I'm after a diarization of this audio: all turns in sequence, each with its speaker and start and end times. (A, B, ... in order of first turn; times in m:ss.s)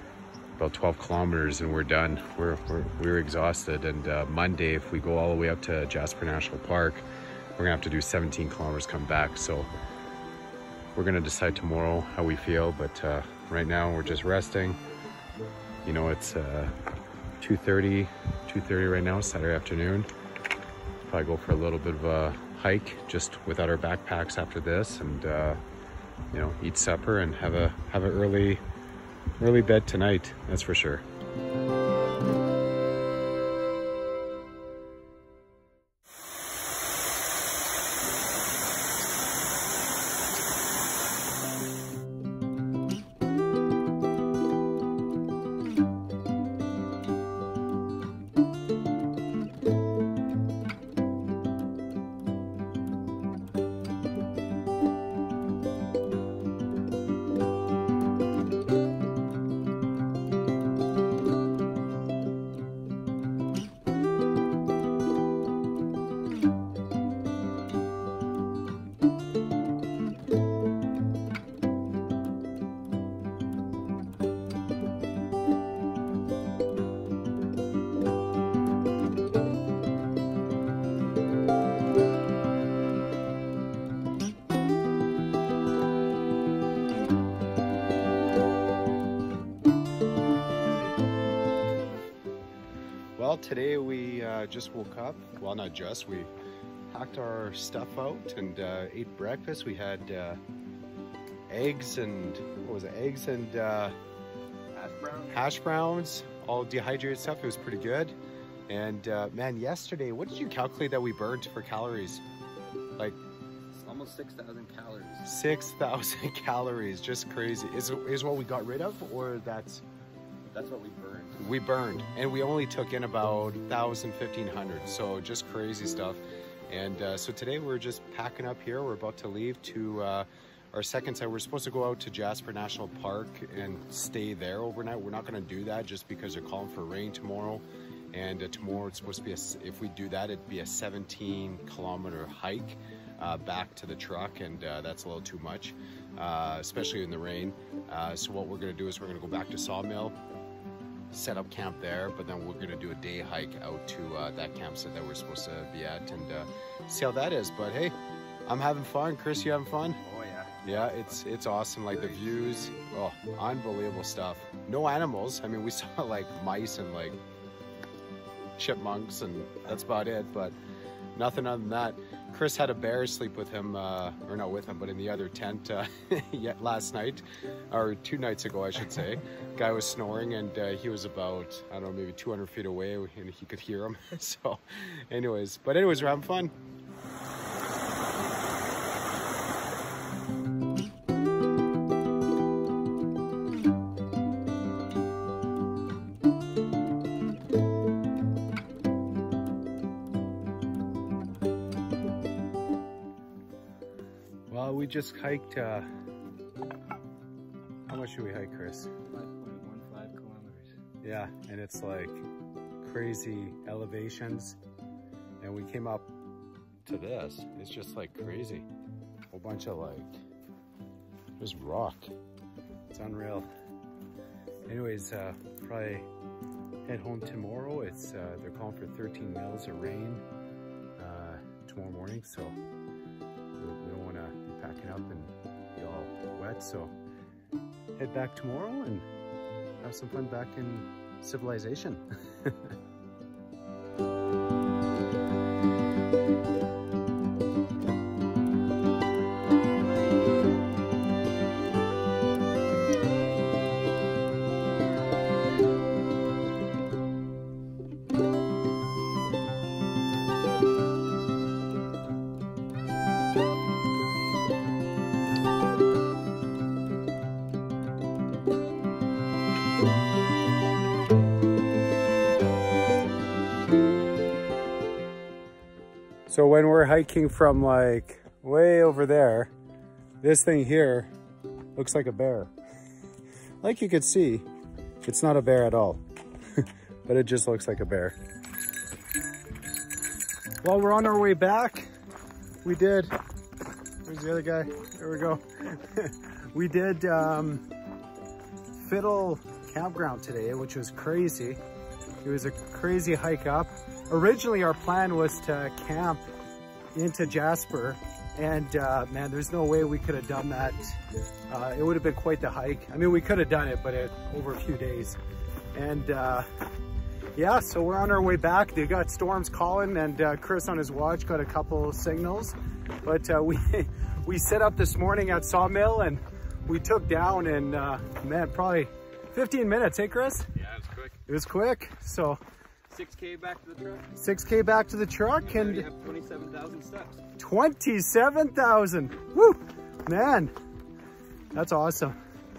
0:00.6-0:07.0 A
0:07.6-0:09.7 A
0:11.0-0:14.8 A
0:15.8-0:16.8 A
0:17.4-0:20.1 A
0:21.1-0:25.6 A
0:26.3-0:28.6 A
0:29.4-0:31.0 A
1:33.2-1:36.3 A
1:36.9-1:40.4 A
1:41.5-1:44.0 A
1:44.7-1:45.5 B
1:45.3-1:48.2 A
1:48.7-1:52.2 A
1:53.7-1:55.3 B
1:55.2-1:59.8 A
2:00.5-2:01.4 B
2:01.4-2:30.2 A
2:31.1-2:40.0 A
2:40.0-2:41.1 B
2:40.6-2:47.2 A
2:42.0-2:42.6 B
2:48.6-2:50.6 A
2:51.1-3:06.5 A
3:24.5-3:25.8 A
3:27.9-3:28.9 A
3:29.1-3:30.7 B
3:31.0-3:32.2 A
3:32.8-3:34.6 A
3:35.4-3:36.1 A
3:36.8-3:38.7 A
3:39.3-3:40.1 A
3:41.4-3:42.1 A
3:42.9-3:43.5 A
3:44.7-3:46.1 A
3:46.9-3:50.2 A
3:51.0-3:52.6 A
3:53.6-3:56.9 A
3:58.0-3:59.1 A
3:59.8-4:02.6 A
4:36.3-4:39.5 A
4:40.2-4:41.1 A
4:41.8-4:42.5 A
4:43.6-4:44.5 A
4:45.0-4:46.0 A
4:46.6-4:48.2 A
4:50.6-4:51.9 A
4:52.6-4:53.1 A
4:54.0-4:57.6 A
4:58.8-5:01.6 A
5:02.2-5:06.2 A
5:06.9-5:15.2 A
5:15.7-5:16.5 A
5:17.4-5:30.5 A
5:30.7-5:31.1 B
5:31.2-5:32.4 A
5:32.9-5:34.1 B
5:34.2-5:35.9 A
5:35.4-5:37.2 B
5:37.4-5:40.5 A
5:41.5-5:42.2 A